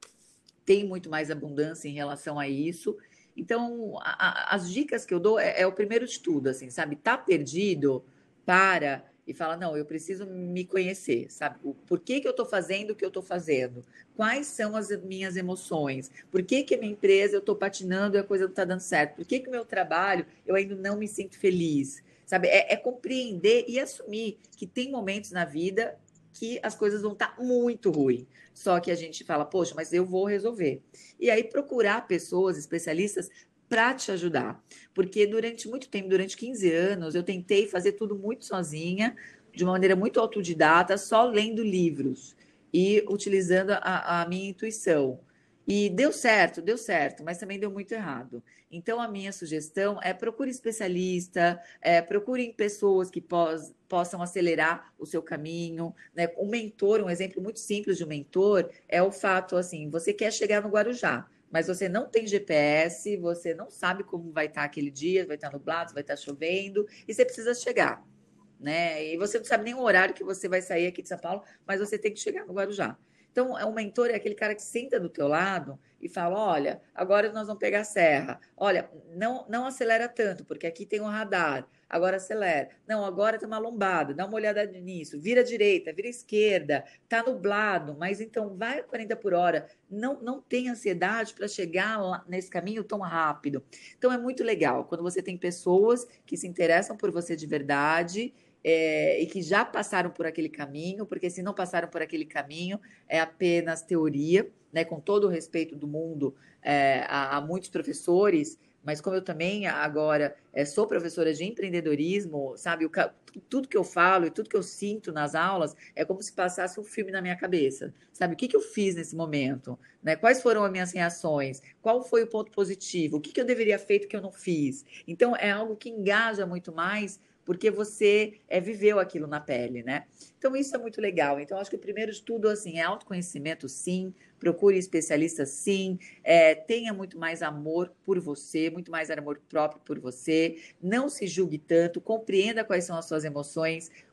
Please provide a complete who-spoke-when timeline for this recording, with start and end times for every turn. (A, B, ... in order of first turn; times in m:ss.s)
0:00.6-1:08.0 A
1:08.6-2:23.9 A